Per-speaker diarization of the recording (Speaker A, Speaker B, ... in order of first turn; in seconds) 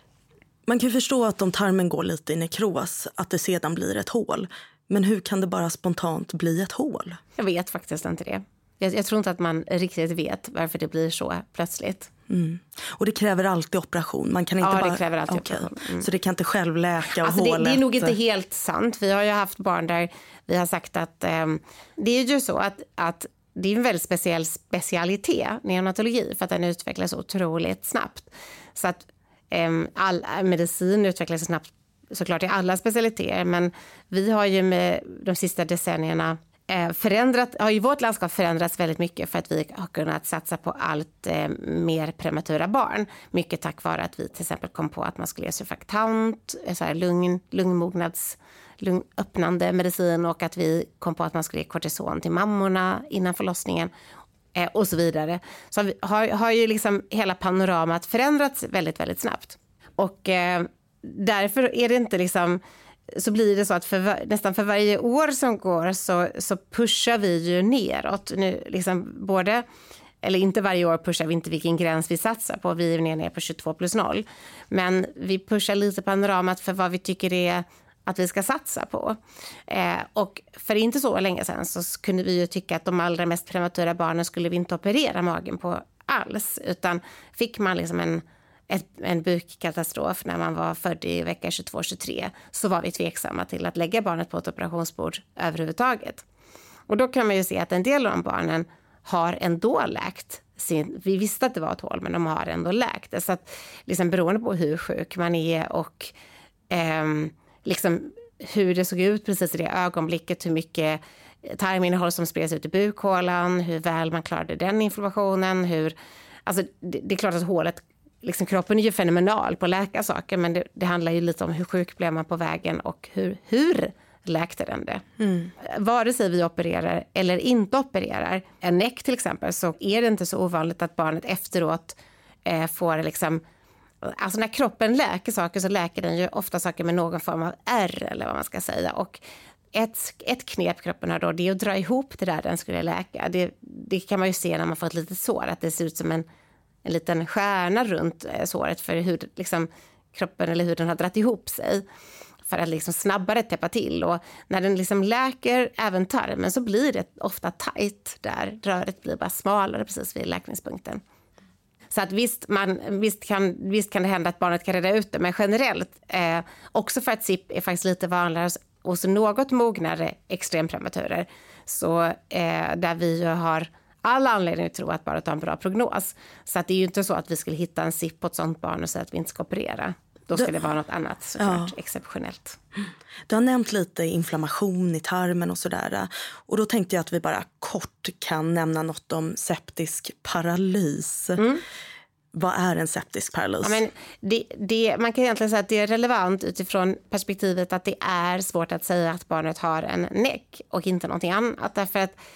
Speaker A: 0.7-7.2, 12.3-18.1, 125.2-125.5, 181.4-181.7, 183.3-191.4, 192.3-193.8
Speaker B: 7.4-12.1, 14.6-16.1, 17.1-53.9, 54.5-69.6, 70.2-79.2, 79.7-96.2, 96.9-106.1, 106.7-115.9, 116.5-125.0, 125.6-133.4, 134.0-139.2, 139.7-146.2, 146.8-151.8, 152.5-161.0, 161.9-182.6, 191.4-191.6, 193.6-202.2